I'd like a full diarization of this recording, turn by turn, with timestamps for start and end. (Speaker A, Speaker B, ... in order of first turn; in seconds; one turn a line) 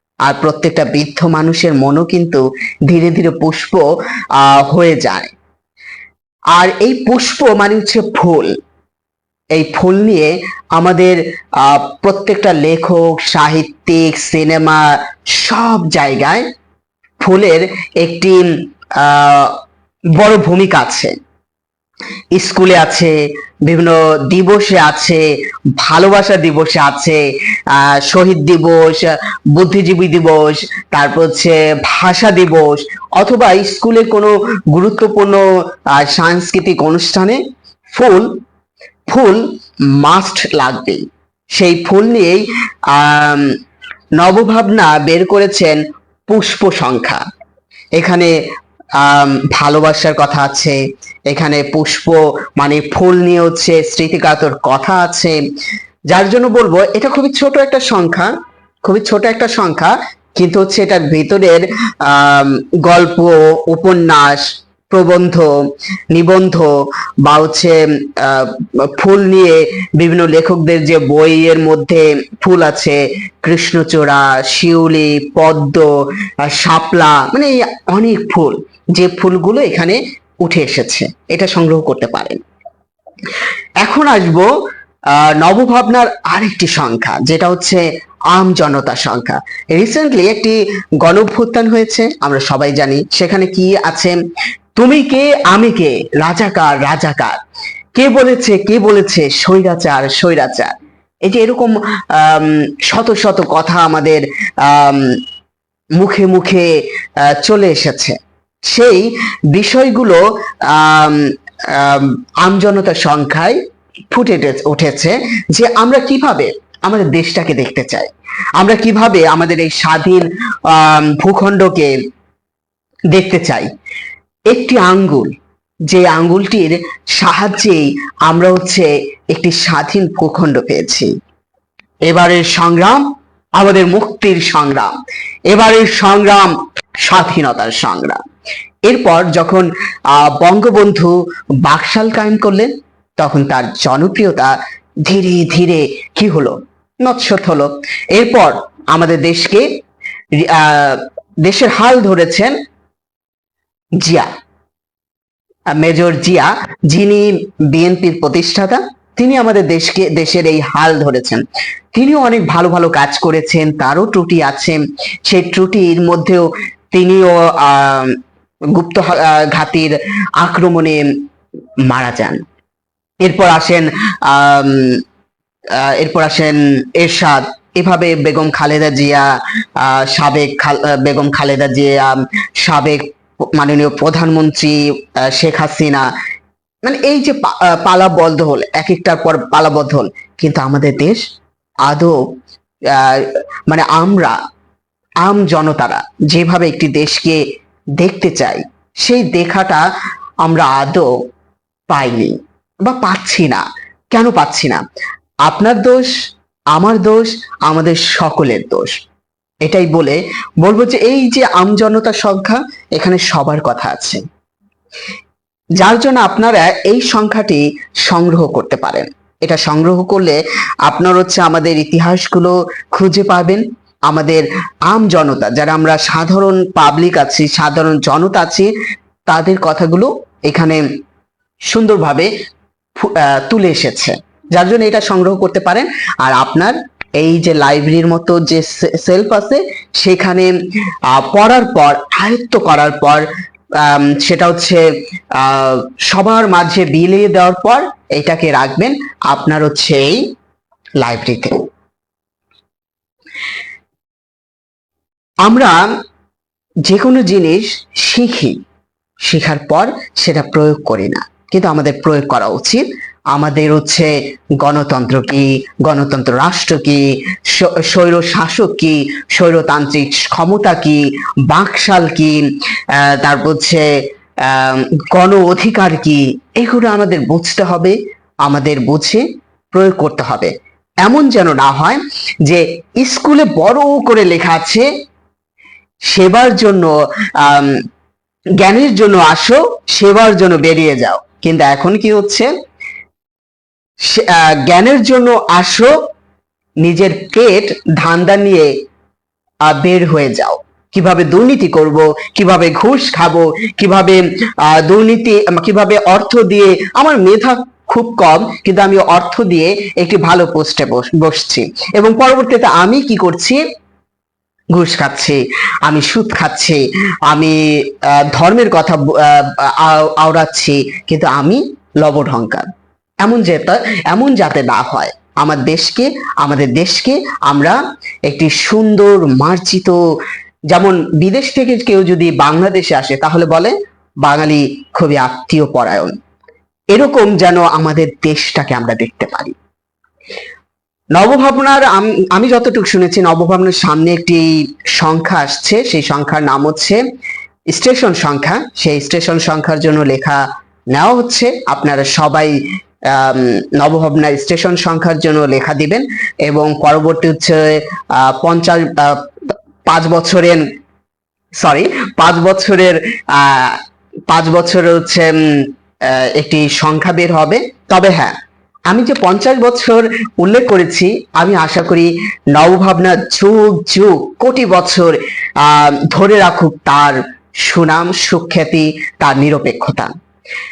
Speaker A: 0.2-3.8
Speaker A: 4.3-5.3
Speaker A: 6.5-8.5
Speaker A: 9.5-16.4
Speaker A: 17.2-19.6
Speaker A: 20.1-21.1
Speaker A: 22.3-25.2
Speaker A: 25.8-27.2
Speaker A: 27.7-37.4
Speaker A: 37.9-38.3
Speaker A: 39.1-39.4
Speaker A: 40.0-41.0
Speaker A: 41.5-43.5
Speaker A: 44.2-47.2
Speaker A: 48.0-48.3
Speaker A: 49.0-50.8
Speaker A: 51.3-55.4
Speaker A: 56.1-58.3
Speaker A: 58.8-65.5
Speaker A: 66.1-66.7
Speaker A: 67.2-75.9
Speaker A: 76.4-82.4
Speaker A: 83.8-84.5
Speaker A: 85.1-94.2
Speaker A: 94.8-97.4
Speaker A: 98.0-100.7
Speaker A: 101.2-105.2
Speaker A: 106.0-106.7
Speaker A: 107.3-113.6
Speaker A: 114.1-121.9
Speaker A: 123.1-123.7
Speaker A: 124.5-125.3
Speaker A: 125.9-131.1
Speaker A: 132.1-133.0
Speaker A: 133.6-134.9
Speaker A: 135.5-138.2
Speaker A: 138.8-149.7
Speaker A: 150.3-152.5
Speaker A: 154.0-154.3
Speaker A: 155.8-161.4
Speaker A: 161.9-168.2
Speaker A: 168.7-171.0
Speaker A: 171.8-172.4
Speaker A: 173.2-175.0
Speaker A: 175.8-179.2
Speaker A: 179.8-183.0
Speaker A: 183.5-186.0
Speaker A: 186.8-191.2
Speaker A: 191.8-192.2
Speaker A: 192.9-194.3
Speaker A: 195.2-197.4
Speaker A: 198.0-199.8
Speaker A: 200.4-201.1
Speaker A: 201.9-204.8
Speaker A: 205.4-206.1
Speaker A: 206.7-209.0
Speaker A: 209.6-214.2
Speaker A: 215.8-228.7
Speaker A: 229.3-230.8
Speaker A: 231.7-232.3
Speaker A: 233.0-240.5
Speaker A: 241.1-243.2
Speaker A: 243.8-250.2
Speaker A: 251.0-251.6
Speaker A: 255.4-255.7
Speaker A: 256.8-258.6
Speaker A: 259.2-272.4
Speaker A: 272.9-273.8
Speaker A: 274.4-280.5
Speaker A: 281.0-284.9
Speaker A: 286.1-287.8
Speaker A: 288.6-292.5
Speaker A: 294.0-295.9
Speaker A: 296.8-298.7
Speaker A: 299.6-313.6
Speaker A: 314.7-322.7
Speaker A: 323.2-330.0
Speaker A: 330.7-336.1
Speaker A: 336.9-339.6
Speaker A: 341.1-347.0
Speaker A: 347.7-352.5
Speaker A: 353.1-359.3
Speaker A: 359.9-360.6
Speaker A: 361.6-368.3
Speaker A: 368.9-380.1